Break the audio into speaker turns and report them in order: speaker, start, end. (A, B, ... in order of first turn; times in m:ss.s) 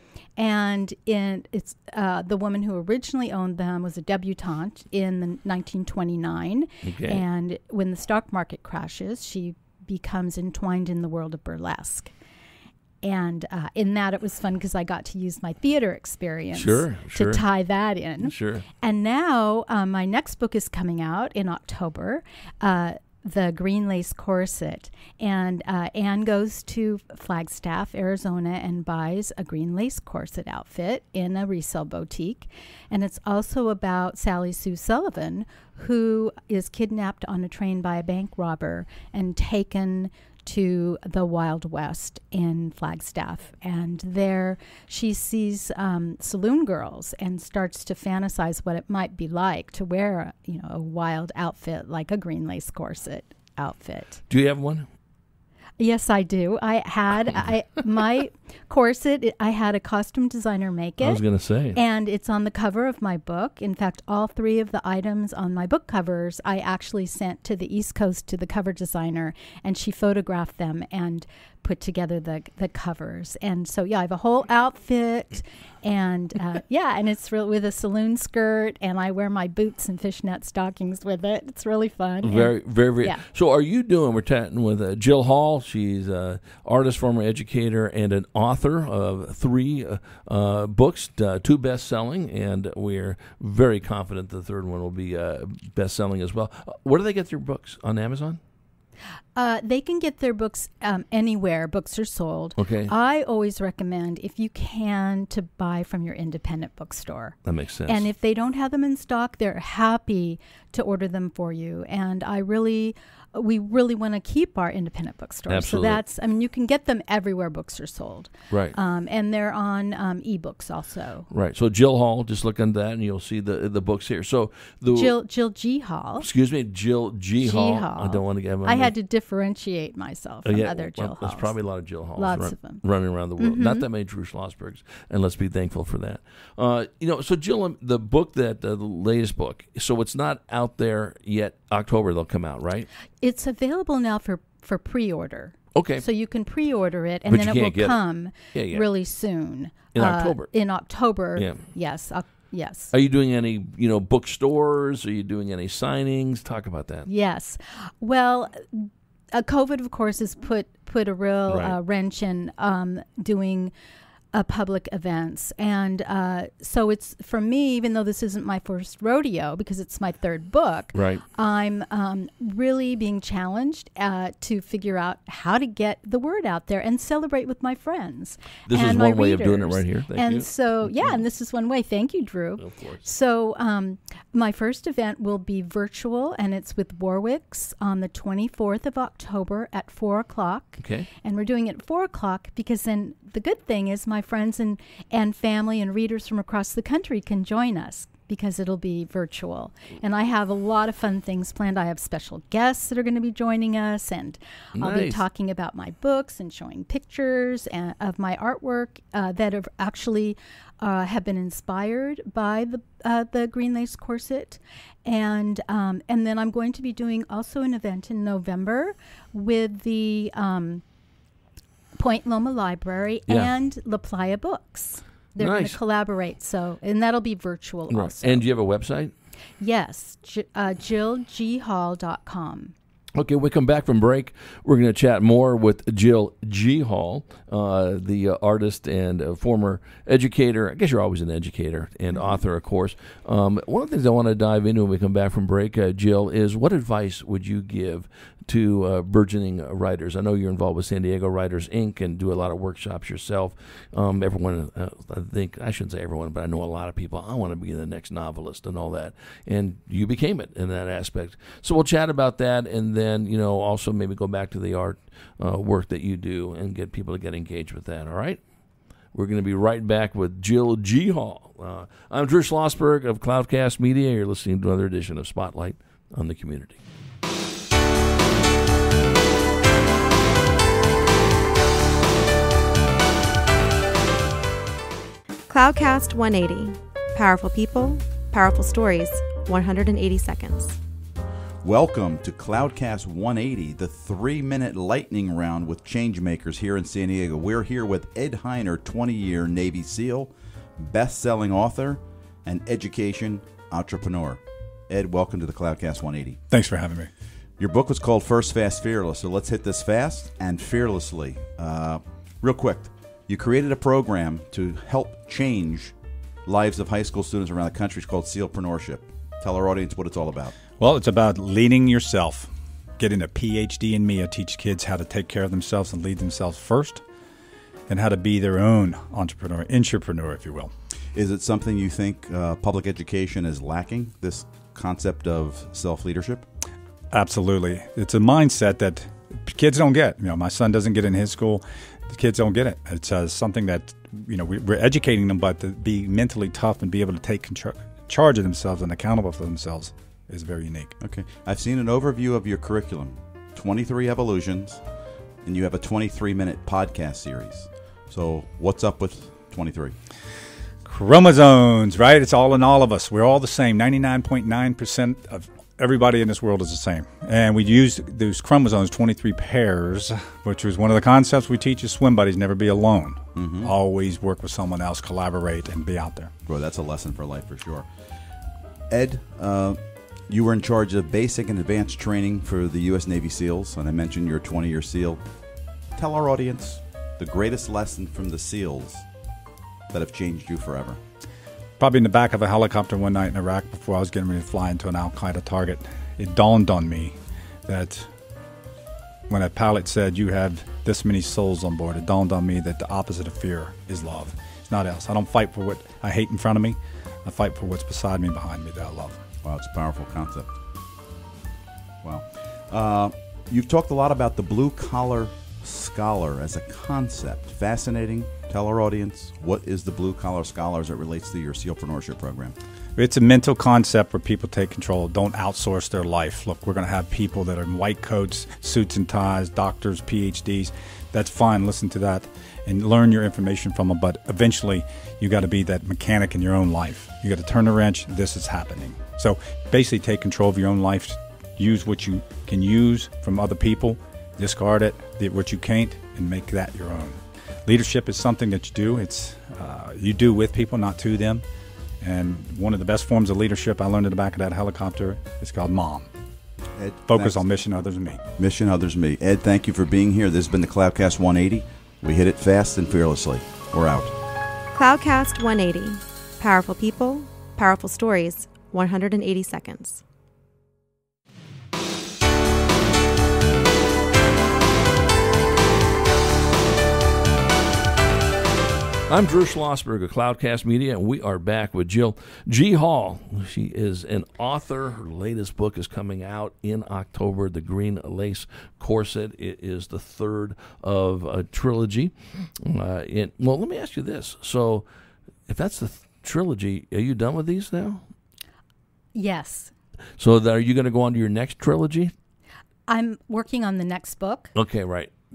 0:00.4-0:12.1 A
0:06.8-0:07.2 B
0:13.0-0:54.2 A
0:16.6-0:17.4 B
0:18.2-0:18.7 B
0:54.3-0:54.9 B
0:55.8-1:01.2 A
1:01.0-1:01.8 B
1:01.7-1:23.2 A
1:22.2-1:38.4 B
1:39.4-1:47.4 A
1:42.6-1:42.9 B
1:47.5-1:48.1 B
1:47.9-2:01.3 A
1:55.5-1:56.0 B
1:58.5-1:58.8 B
2:01.3-2:05.2 B
2:04.9-2:06.3 A
2:06.2-2:08.9 B
2:07.4-2:11.5 A
2:10.4-2:22.9 B
2:12.2-2:12.8 A
2:13.4-2:13.8 A
2:23.2-2:32.9 A
2:25.8-2:26.0 B
2:27.3-2:28.0 B
2:28.5-2:28.9 B
2:29.9-2:30.5 B
2:31.4-2:31.6 B
2:32.9-2:37.1 B
2:37.1-2:43.7 A
2:41.5-2:41.8 B
2:44.3-3:40.8 A
2:50.9-2:51.2 B
2:58.7-3:01.2 B
3:02.6-3:03.0 B
3:10.8-3:11.1 B
3:24.8-3:25.2 B
3:42.0-3:48.4 A
3:45.4-3:45.8 B
3:47.9-3:49.1 B
3:49.6-3:52.7 A
3:53.2-4:28.4 B
4:02.1-4:02.4 A
4:29.1-4:36.8 B
4:45.5-4:50.8 C
4:51.6-5:06.4 D
5:06.5-5:07.1 E
5:07.6-5:15.9 D
5:16.5-5:20.6 D
5:20.8-5:27.0 E
5:27.9-5:30.7 E
5:31.1-5:36.5 D
5:37.1-5:51.0 E
5:51.0-5:54.8 D
5:55.4-6:00.0 D
6:00.8-6:16.3 E
6:13.4-6:13.7 D
6:16.5-6:17.9 D
6:18.9-6:25.2 D
6:26.0-6:29.0 D
6:29.9-6:31.0 D
6:31.8-6:38.1 E
6:39.3-6:49.2 E
6:49.4-6:50.5 D
6:52.0-7:02.6 D
7:03.0-7:31.4 E
7:32.0-7:36.1 E
7:36.8-7:37.4 D
7:37.1-7:38.2 E
7:38.4-7:44.1 D
7:44.7-7:50.0 C
7:59.1-8:14.9 B
8:15.5-8:18.0 B
8:19.2-8:19.7 A
8:20.2-8:22.1 B
8:22.9-8:24.5 A
8:24.6-8:25.1 B